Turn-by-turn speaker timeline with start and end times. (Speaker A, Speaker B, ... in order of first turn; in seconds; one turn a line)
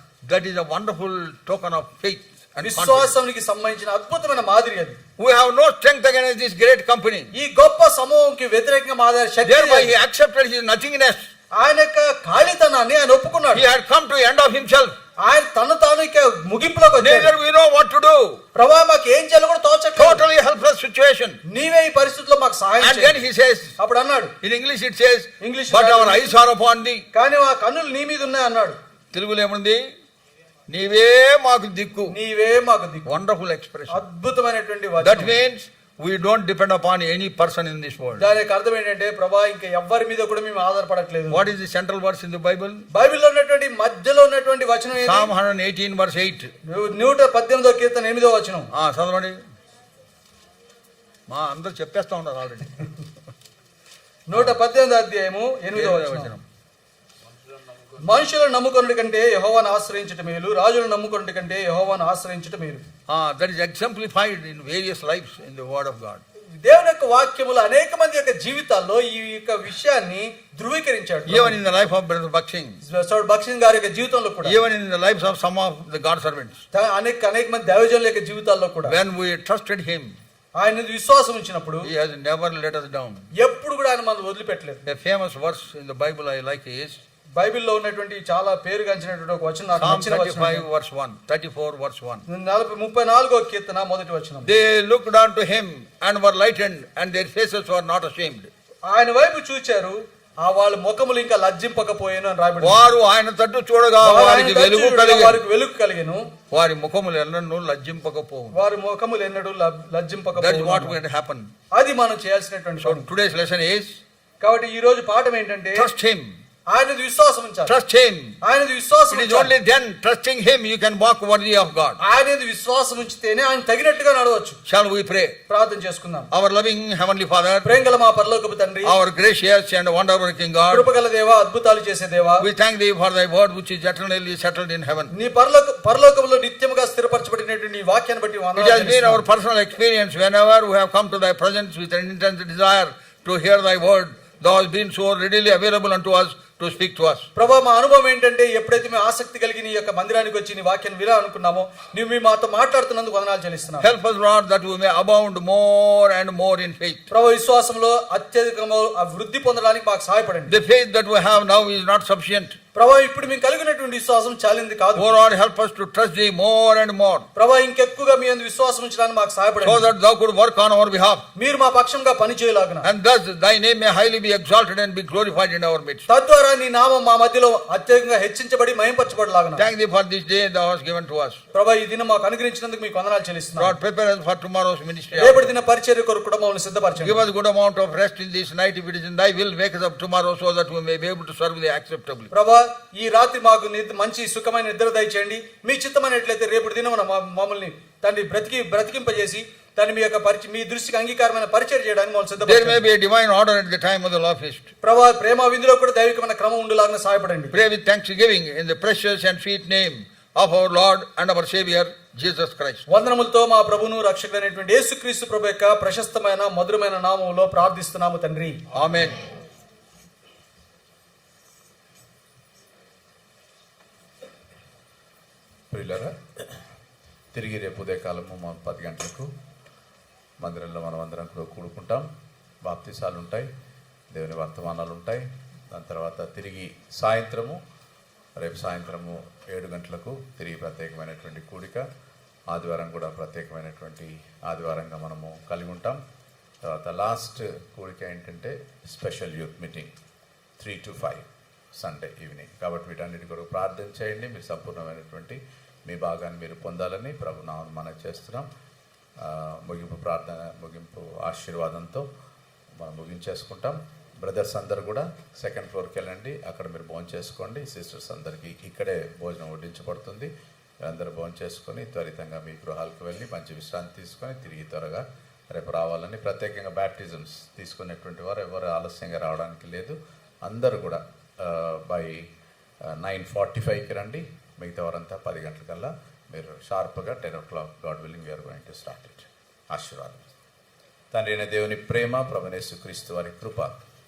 Speaker A: 0.3-3.1
Speaker B: 2.6-5.0
Speaker A: 5.2-7.3
Speaker B: 7.3-10.0
Speaker A: 9.4-11.3
Speaker B: 11.5-13.7
Speaker A: 13.5-14.9
Speaker B: 15.2-17.3
Speaker A: 17.0-18.4
Speaker B: 18.6-20.3
Speaker A: 19.9-21.4
Speaker B: 21.5-23.2
Speaker A: 22.8-23.7
Speaker B: 23.8-24.3
Speaker A: 24.4-27.0
Speaker B: 25.4-26.4
Speaker B: 27.1-28.8
Speaker A: 29.1-29.8
Speaker A: 30.7-32.2
Speaker B: 32.1-33.2
Speaker A: 33.0-34.0
Speaker B: 33.9-35.4
Speaker A: 35.0-38.3
Speaker B: 38.2-41.4
Speaker A: 41.3-42.9
Speaker B: 42.9-45.3
Speaker A: 45.0-46.5
Speaker B: 46.6-48.7
Speaker A: 48.7-49.4
Speaker A: 51.3-52.9
Speaker B: 54.3-56.3
Speaker A: 55.7-56.4
Speaker B: 58.0-62.8
Speaker A: 63.1-66.2
Speaker B: 66.6-71.6
Speaker A: 71.3-72.8
Speaker B: 72.8-74.5
Speaker A: 74.4-76.6
Speaker B: 76.7-78.9
Speaker A: 78.9-80.1
Speaker B: 80.6-81.9
Speaker A: 81.8-83.2
Speaker B: 83.4-84.8
Speaker A: 84.9-87.0
Speaker B: 87.4-90.7
Speaker A: 89.8-92.2
Speaker B: 92.3-94.5
Speaker A: 94.5-98.5
Speaker B: 98.9-102.9
Speaker A: 102.6-105.4
Speaker B: 104.0-106.2
Speaker A: 106.5-108.5
Speaker B: 108.5-111.0
Speaker A: 110.4-111.5
Speaker B: 111.8-113.1
Speaker A: 112.8-114.0
Speaker B: 114.4-115.9
Speaker A: 115.8-116.3
Speaker B: 116.7-117.8
Speaker A: 117.7-118.4
Speaker B: 118.4-119.5
Speaker A: 119.1-122.0
Speaker B: 122.0-124.6
Speaker A: 124.7-125.4
Speaker B: 125.5-126.3
Speaker A: 126.3-127.7
Speaker B: 127.6-128.9
Speaker A: 128.9-130.9
Speaker B: 130.7-132.4
Speaker A: 132.4-135.1
Speaker B: 135.1-139.2
Speaker A: 138.6-147.3
Speaker B: 147.4-153.9
Speaker A: 153.8-157.1
Speaker B: 157.1-160.5
Speaker A: 160.5-162.6
Speaker B: 162.8-165.1
Speaker A: 164.9-167.3
Speaker B: 167.4-169.9
Speaker A: 169.6-171.2
Speaker B: 171.4-172.9
Speaker A: 172.8-176.0
Speaker B: 176.1-179.6
Speaker A: 179.6-181.4
Speaker B: 181.6-183.8
Speaker A: 183.6-185.5
Speaker B: 185.2-187.2
Speaker A: 187.0-192.3
Speaker B: 192.3-202.8
Speaker A: 202.4-204.7
Speaker B: 204.8-207.5
Speaker A: 207.5-212.8
Speaker B: 212.9-218.6
Speaker A: 218.7-219.2
Speaker C: 225.7-226.1
Speaker C: 227.3-229.3
Speaker C: 230.4-232.1
Speaker C: 232.7-233.5
Speaker C: 234.1-237.6
Speaker C: 238.4-241.9
Speaker C: 242.5-246.0
Speaker C: 246.7-249.9
Speaker C: 250.6-251.2
Speaker C: 251.8-258.5
Speaker C: 259.2-262.0
Speaker C: 262.8-270.3
Speaker C: 270.8-282.2
Speaker C: 283.0-290.2
Speaker C: 291.1-293.7